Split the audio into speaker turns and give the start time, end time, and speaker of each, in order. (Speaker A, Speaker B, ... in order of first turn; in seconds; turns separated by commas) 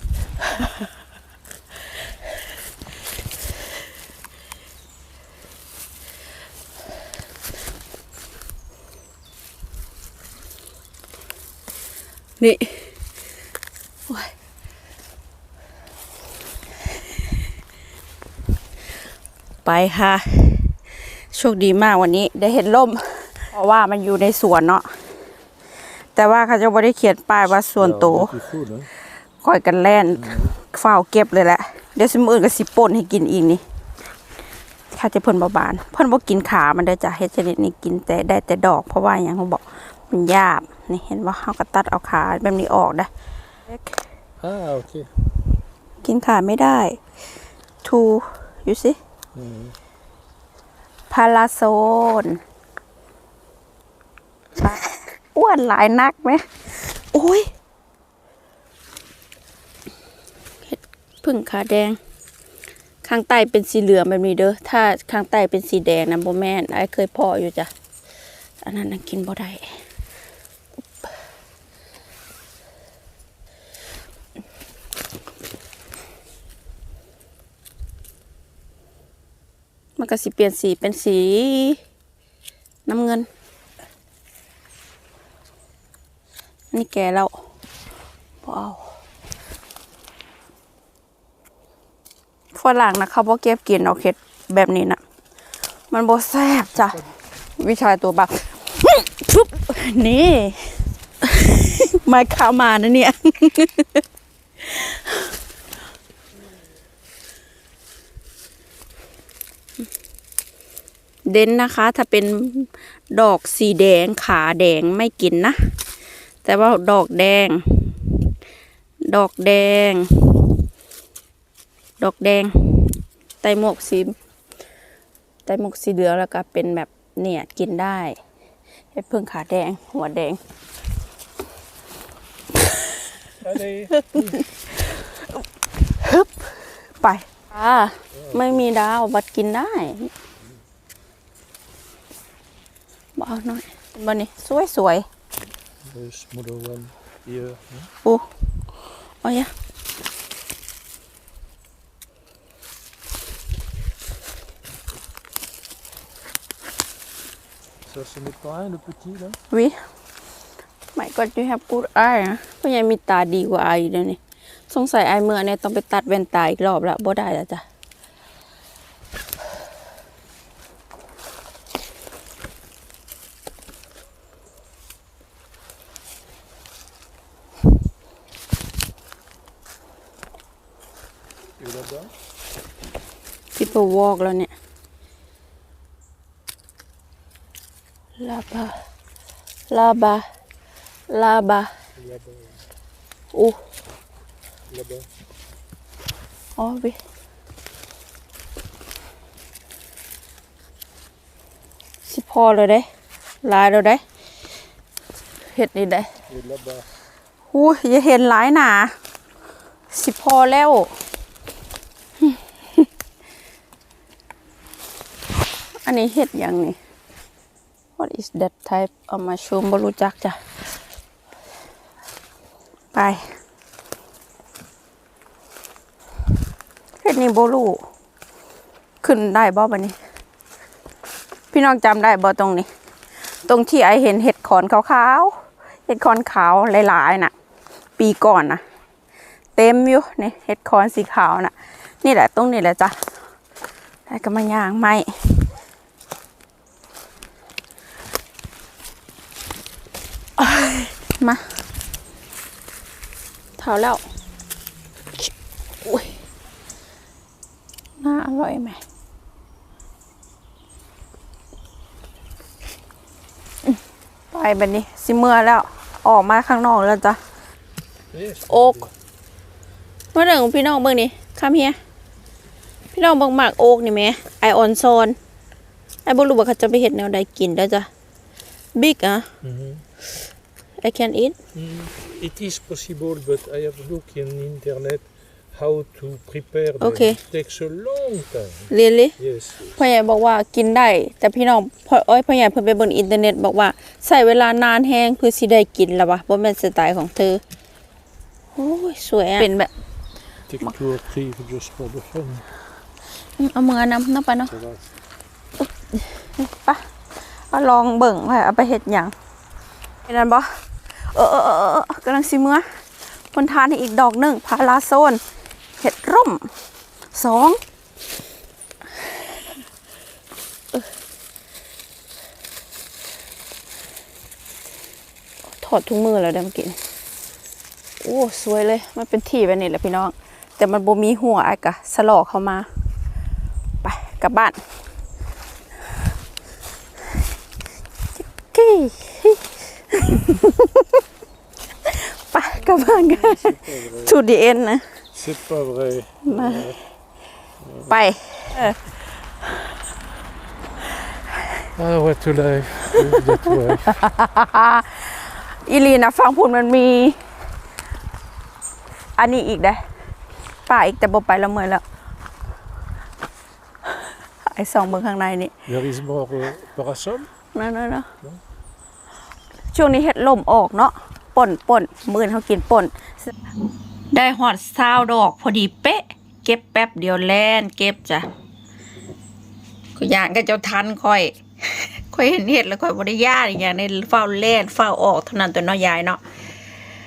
Speaker A: 0.4-0.7, Speaker A: 12.4-12.9, Speaker A: 14.1-14.3, Speaker A: 19.6-24.9, Speaker A: 26.1-28.4, Speaker B: 27.8-28.9, Speaker A: 29.4-33.6, Speaker B: 30.2-30.5, Speaker A: 34.9-43.1, Speaker B: 44.4-45.3, Speaker A: 46.0-47.0, Speaker A: 47.8-49.0, Speaker B: 49.3-49.7, Speaker A: 51.1-52.4, Speaker A: 54.6-57.5, Speaker A: 60.6-62.0, Speaker A: 63.0-67.7, Speaker A: 68.6-69.8, Speaker A: 80.0-81.8, Speaker A: 82.8-83.3, Speaker A: 86.7-87.3, Speaker A: 88.4-88.9, Speaker A: 92.5-95.0, Speaker A: 95.9-104.0, Speaker A: 104.6-105.3, Speaker A: 111.3-115.8, Speaker A: 116.4-118.3, Speaker A: 119.0-120.5, Speaker A: 122.0-124.2, Speaker A: 125.4-128.2, Speaker A: 128.9-130.4, Speaker B: 133.4-134.4, Speaker A: 134.0-140.1, Speaker B: 138.1-138.6, Speaker A: 143.2-145.1, Speaker B: 145.8-147.9, Speaker A: 148.0-148.3, Speaker A: 149.2-149.5, Speaker B: 157.8-159.4, Speaker A: 159.5-159.8, Speaker A: 160.9-167.6, Speaker B: 181.6-182.1, Speaker A: 183.5-184.5, Speaker A: 188.2-188.8, Speaker A: 189.7-190.2, Speaker A: 191.1-191.7, Speaker B: 192.0-192.6, Speaker A: 193.3-193.6, Speaker B: 194.7-195.1, Speaker A: 196.6-197.0, Speaker A: 202.1-202.9, Speaker A: 203.4-204.0, Speaker A: 205.4-206.1, Speaker B: 206.3-206.9, Speaker A: 207.5-208.9, Speaker A: 209.9-210.9, Speaker A: 212.2-212.9, Speaker A: 215.8-216.8, Speaker A: 218.0-220.4, Speaker A: 222.9-223.3, Speaker A: 227.0-227.8, Speaker A: 229.0-229.9, Speaker A: 231.5-232.7, Speaker A: 233.4-237.3, Speaker A: 238.0-238.6, Speaker A: 239.6-243.1, Speaker A: 244.1-245.5, Speaker A: 250.4-251.4, Speaker A: 253.6-254.0, Speaker A: 255.8-256.1, Speaker A: 258.0-258.8, Speaker A: 264.3-267.2, Speaker B: 268.1-268.9, Speaker A: 268.5-268.9, Speaker A: 270.1-271.8, Speaker A: 272.9-275.2, Speaker A: 276.0-277.9, Speaker A: 278.8-279.3, Speaker B: 279.4-279.8, Speaker A: 280.8-281.4, Speaker B: 281.5-289.7, Speaker A: 286.8-287.2, Speaker A: 288.7-289.1, Speaker A: 289.7-297.4, Speaker A: 298.6-299.7, Speaker B: 300.5-302.4, Speaker A: 303.4-304.5, Speaker B: 304.5-304.8, Speaker A: 305.6-306.8, Speaker A: 307.5-309.1, Speaker A: 310.0-312.6, Speaker A: 313.3-315.2, Speaker A: 315.8-316.5, Speaker A: 317.1-317.6, Speaker A: 325.5-326.8, Speaker A: 328.0-332.7, Speaker A: 333.8-334.6, Speaker A: 338.4-341.0, Speaker A: 341.8-344.9, Speaker B: 342.6-344.1, Speaker B: 345.1-346.8, Speaker A: 346.2-346.7, Speaker B: 347.6-347.9, Speaker A: 347.9-348.8, Speaker B: 351.7-354.0, Speaker A: 353.1-357.2, Speaker A: 359.2-359.8, Speaker A: 360.6-361.8, Speaker A: 364.4-365.5, Speaker B: 365.6-367.3, Speaker A: 367.5-368.1, Speaker A: 369.7-373.3, Speaker A: 374.1-378.3, Speaker A: 379.9-386.2